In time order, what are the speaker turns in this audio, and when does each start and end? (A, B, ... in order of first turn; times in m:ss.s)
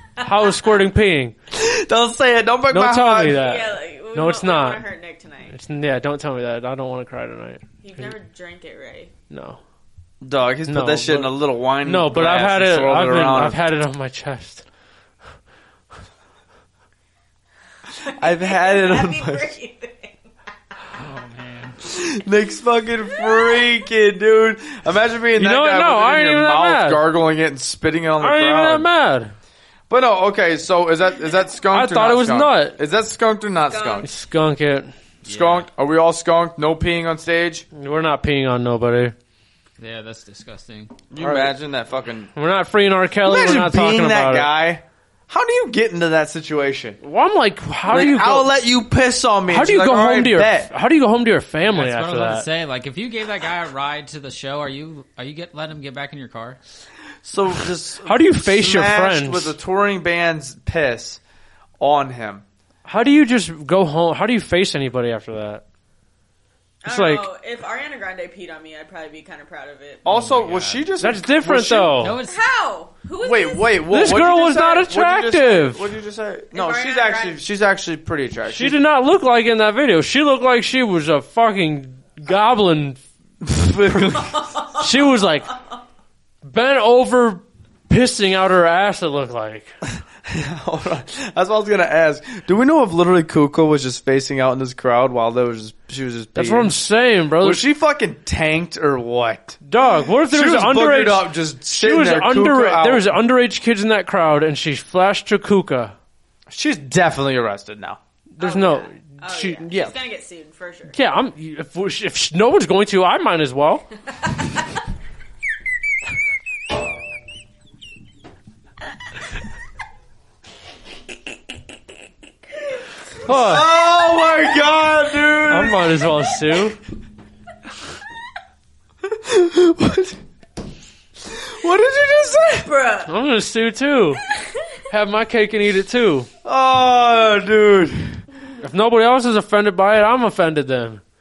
0:00.2-0:00.6 A
0:00.2-0:01.3 B
0:01.5-0:03.5 C
0:02.7-0:04.9 B
0:03.3-0:05.6 A
0:05.5-0:07.6 B
0:07.8-0:09.1 A
0:09.3-0:09.6 B
0:10.2-0:13.6 C
0:10.7-0:14.6 B
0:18.0-0:20.2 A
0:18.1-0:19.5 C
0:20.9-0:21.8 D
0:21.8-0:28.9 C
0:23.1-0:23.7 A
0:25.4-0:27.0 B
0:28.2-0:29.3 B
0:29.9-0:34.1 C
0:31.7-0:32.8 B
0:33.7-0:34.1 A
0:34.0-0:34.9 B
0:35.2-0:35.7 D
0:35.2-0:37.7 C
0:37.7-0:39.1 B
0:39.8-0:41.0 D
0:41.1-0:42.3 C
0:41.2-0:41.5 B
0:42.3-0:44.5 B
0:43.2-0:47.0 C
0:47.0-0:48.5 B
0:47.9-0:50.7 C
0:49.5-0:52.4 B
0:51.7-0:56.6 D
0:57.2-1:01.2 C
0:58.0-0:59.6 B
1:01.8-1:02.4 C
1:02.9-1:05.6 B
1:06.8-1:10.0 A
1:06.9-1:07.3 B
1:10.0-1:12.0 C
1:10.1-1:10.9 D
1:11.0-1:12.2 B
1:12.0-1:12.4 D
1:12.2-1:13.8 A
1:13.2-1:18.8 C
1:13.9-1:15.9 B
1:16.5-1:17.4 A
1:18.4-1:23.0 B
1:23.4-1:24.5 C
1:24.1-1:25.0 A
1:24.8-1:25.5 B
1:26.4-1:29.7 B
1:30.2-1:36.8 C
1:36.4-1:37.6 B
1:37.4-1:39.6 C
1:39.6-1:46.0 B
1:40.3-1:43.0 C
1:46.5-1:48.0 C
1:48.3-1:49.7 B
1:48.4-1:51.0 A
1:50.9-1:53.8 B
2:03.2-2:03.7 B
2:03.3-2:06.0 C
2:05.5-2:06.8 B
2:09.0-2:10.2 C
2:11.2-2:12.7 C
2:12.6-2:13.1 A
2:13.1-2:14.2 B
2:14.9-2:16.3 B
2:16.4-2:18.2 C
2:18.6-2:21.0 B